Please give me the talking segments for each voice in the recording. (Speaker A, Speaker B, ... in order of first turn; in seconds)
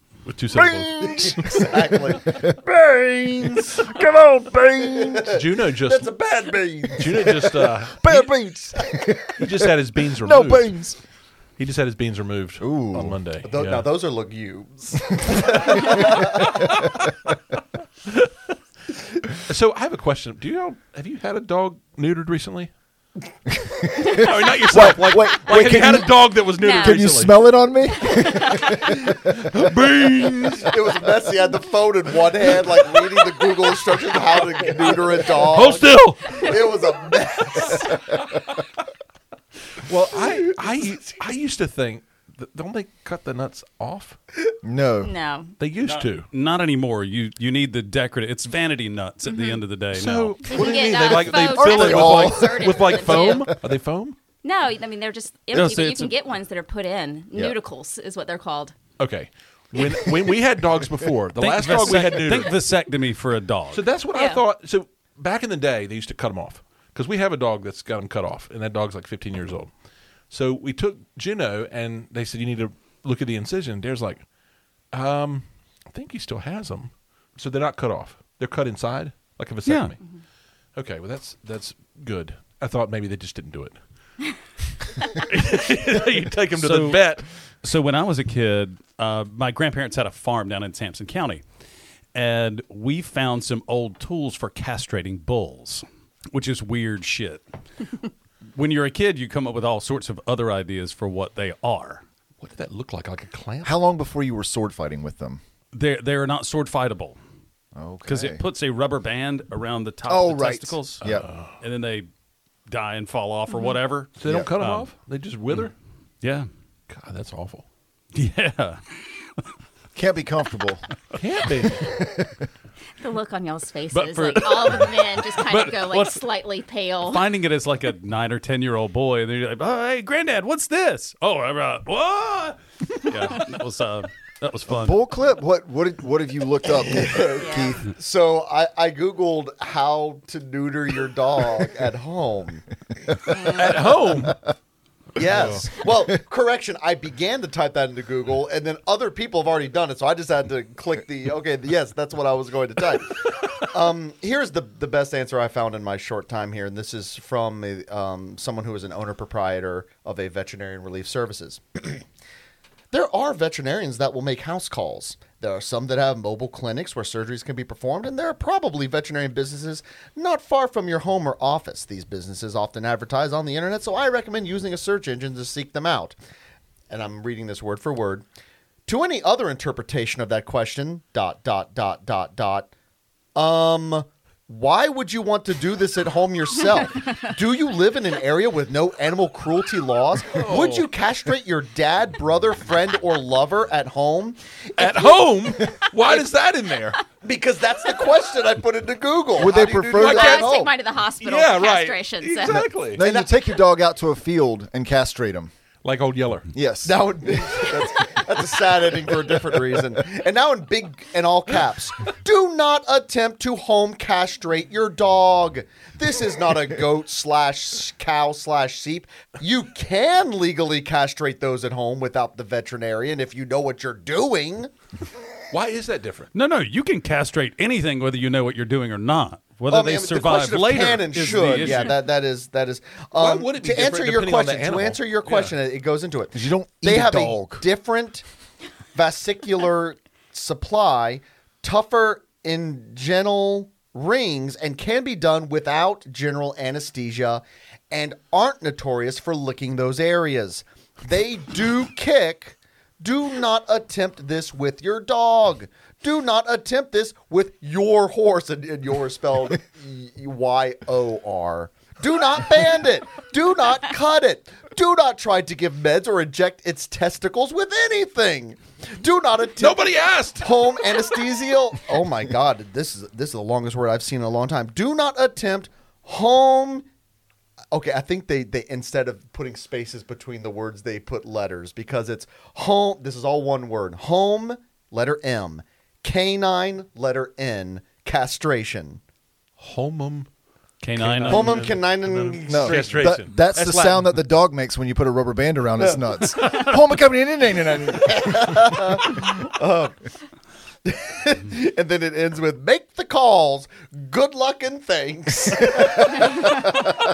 Speaker A: 0.3-1.6, 5.3-6.2, 7.0-8.3, 9.4-10.9, 11.6-13.9, 16.6-16.9, 19.5-22.7, 24.1-27.6, 29.3-30.7, 35.3-36.6, 39.8-44.2, 45.6-46.3, 49.8-54.3, 59.0-62.6, 63.7-87.3, 102.4-103.8, 111.0-111.6, 114.1-115.7, 116.9-117.7, 121.2-121.9, 143.5-144.4, 145.3-145.7, 190.4-190.9, 194.8-197.0, 200.0-200.4, 201.2-203.0, 205.8-206.5, 225.5-226.3, 233.2-235.6, 269.6-270.7, 289.6-290.3, 290.9-294.3
Speaker B: 0.5-5.3, 7.0-11.0, 12.6-13.2, 23.7-29.3, 44.6-45.1, 51.1-53.6, 103.6-105.4, 107.8-108.4, 110.1-111.3, 114.3-114.5, 120.0-120.8, 121.8-122.4, 134.7-137.8, 199.4-200.4, 202.9-205.5, 206.6-207.0, 236.3-237.6, 292.5-298.7, 305.7-306.4
Speaker C: 1.0-2.5, 4.8-7.8, 13.4-16.8, 30.6-38.4, 136.9-142.7, 145.2-162.0, 162.9-176.2, 176.9-178.2, 178.9-182.7, 183.3-195.8, 197.2-200.7, 203.0-203.3, 206.8-224.7, 229.7-238.2, 238.9-276.9, 277.7-289.0, 291.3-293.2, 295.8-296.3, 298.0-300.1, 300.9-306.9
Speaker D: 26.6-27.0, 28.1-28.8, 45.0-45.5, 49.3-49.6, 50.4-53.5, 54.4-58.8, 64.1-64.4, 113.5-113.8, 123.0-127.3, 137.4-137.8, 143.3-143.6, 200.2-202.7
Speaker E: 30.2-30.5, 45.9-50.4, 55.5-56.1, 61.4-63.8, 79.7-80.0, 86.5-87.1, 87.6-91.4, 92.1-97.4, 98.5-102.0, 105.7-107.2, 108.0-111.1, 111.6-112.1, 112.7-114.9, 116.2-116.5, 118.1-119.4, 123.9-126.2, 127.0-135.0, 226.3-232.0, 290.8-291.8